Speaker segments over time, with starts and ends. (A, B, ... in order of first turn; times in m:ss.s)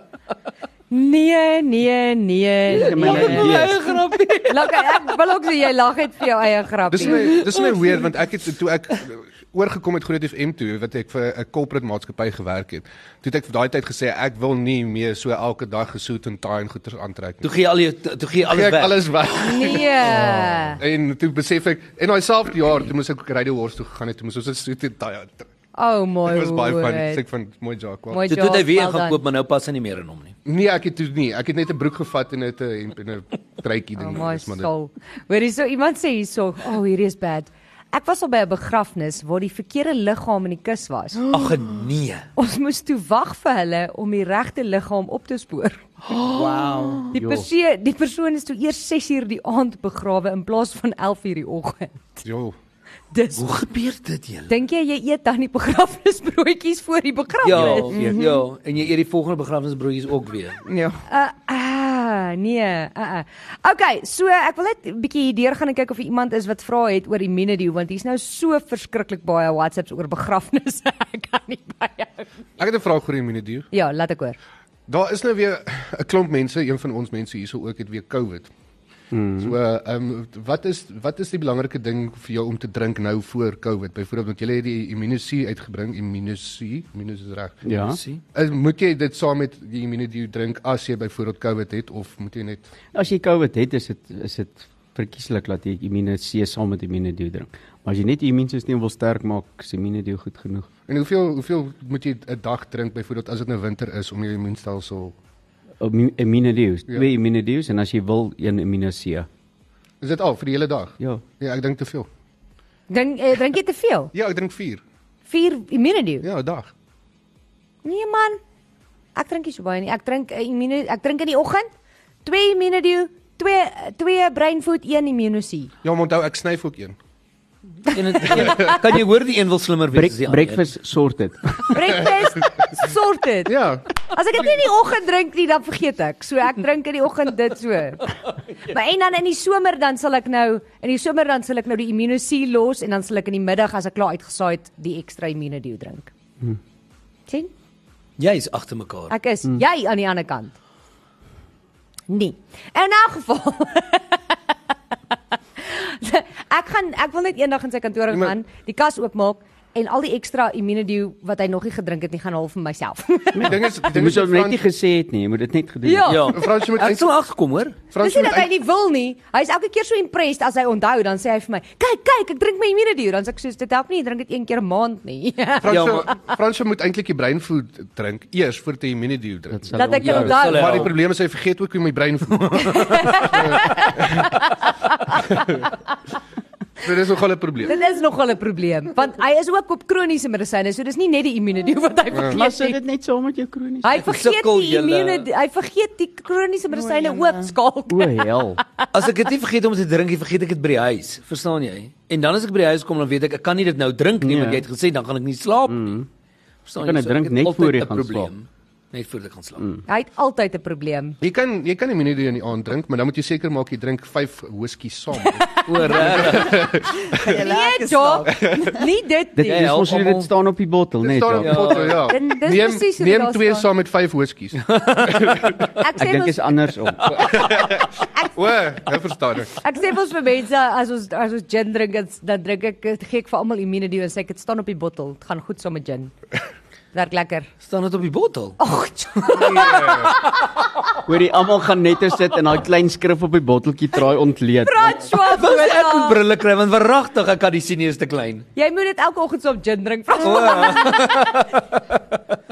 0:00.9-0:03.6 A
0:02.7-0:03.8 B
0:02.7-0:05.1 C
0:04.5-0:07.5 A
0:06.9-0:17.5 D
0:07.1-0:07.9 C
0:17.4-0:19.6 C
0:18.5-0:25.5 D
0:19.4-0:20.8 A
0:20.1-0:20.7 B
0:25.8-0:27.2 A
0:26.2-0:28.3 D
0:28.1-0:29.2 A
0:28.2-0:30.3 C
0:30.4-0:34.7 D
0:33.9-0:41.3 A
0:41.3-0:42.3 C
0:42.4-0:45.8 A
0:46.1-0:47.0 C
0:46.2-0:47.1 E
0:47.1-0:52.2 A
0:47.1-0:47.5 B
0:52.2-0:52.5 D
0:53.1-0:53.6 A
0:53.4-0:54.5 C
0:54.5-0:57.9 A
0:57.4-1:00.6 C
0:57.9-0:58.4 E
1:00.6-1:01.0 E
1:01.1-1:12.3 A
1:12.6-1:13.7 D
1:13.7-1:14.4 A
1:14.9-1:18.5 D
1:19.1-1:19.5 B
1:19.4-1:27.6 D
1:27.6-1:28.0 B
1:27.9-1:28.2 C
1:28.3-1:32.7 D
1:32.9-1:40.7 B
1:40.9-1:45.1 D
1:45.8-1:49.3 B
1:50.0-1:52.1 D
1:52.9-1:54.1 A
1:54.1-1:54.8 D
1:55.3-1:56.2 A
1:56.2-1:56.7 D
1:57.8-1:58.4 A
1:59.1-2:01.7 A
2:02.2-2:05.7 A
2:05.8-2:07.0 D
2:07.9-2:08.8 A
2:07.9-2:10.6 C
2:09.9-2:12.0 B
2:11.7-2:18.1 A
2:13.4-2:13.8 D
2:18.6-2:26.1 A
2:28.2-2:29.1 C
2:29.1-2:30.6 A
2:32.1-2:34.2 A
2:35.6-2:43.5 A
2:38.1-2:38.4 D
2:43.3-2:46.3 B
2:43.4-2:44.6 D
2:45.8-2:46.4 A
2:46.1-2:47.8 C
2:46.3-2:47.1 D
2:47.9-2:48.5 D
2:48.0-2:56.2 A
2:55.6-3:02.7 D
2:55.7-2:56.1 C
2:59.5-3:00.3 B
2:59.7-3:00.9 A
3:00.0-3:01.0 C
3:02.3-3:03.4 C
3:02.6-3:05.4 A
3:03.2-3:04.3 D
3:05.2-3:05.6 D
3:06.8-3:07.8 D
3:07.6-3:12.8 A
3:12.3-3:13.9 B
3:13.8-3:18.9 A
3:14.0-3:15.3 C
3:16.7-3:17.5 E
3:17.9-3:18.6 B
3:18.9-3:25.9 C
3:24.2-3:24.6 B
3:25.7-3:26.1 B
3:26.6-3:29.7 C
3:26.8-3:28.3 B
3:29.6-3:29.8 B
3:29.9-3:31.2 A
3:31.2-3:37.4 D
3:35.2-3:36.7 A
3:35.6-3:36.6 C
3:37.1-3:38.8 E
3:37.4-3:39.7 A
3:38.4-3:38.7 D
3:39.3-3:41.8 B
3:39.5-3:40.3 C
3:41.0-3:45.6 D
3:41.4-3:42.1 C
3:42.1-3:43.7 A
3:44.6-3:45.8 C
3:45.8-3:46.6 A
3:46.0-3:47.4 B
3:47.1-3:49.5 D
3:49.6-3:56.1 A
3:56.9-3:57.5 A
3:57.6-3:58.6 C
3:58.6-4:00.1 A
3:59.3-4:00.1 D
4:01.0-4:05.0 B
4:04.6-4:06.2 A
4:05.1-4:08.5 C
4:08.6-4:11.4 A
4:10.2-4:12.0 C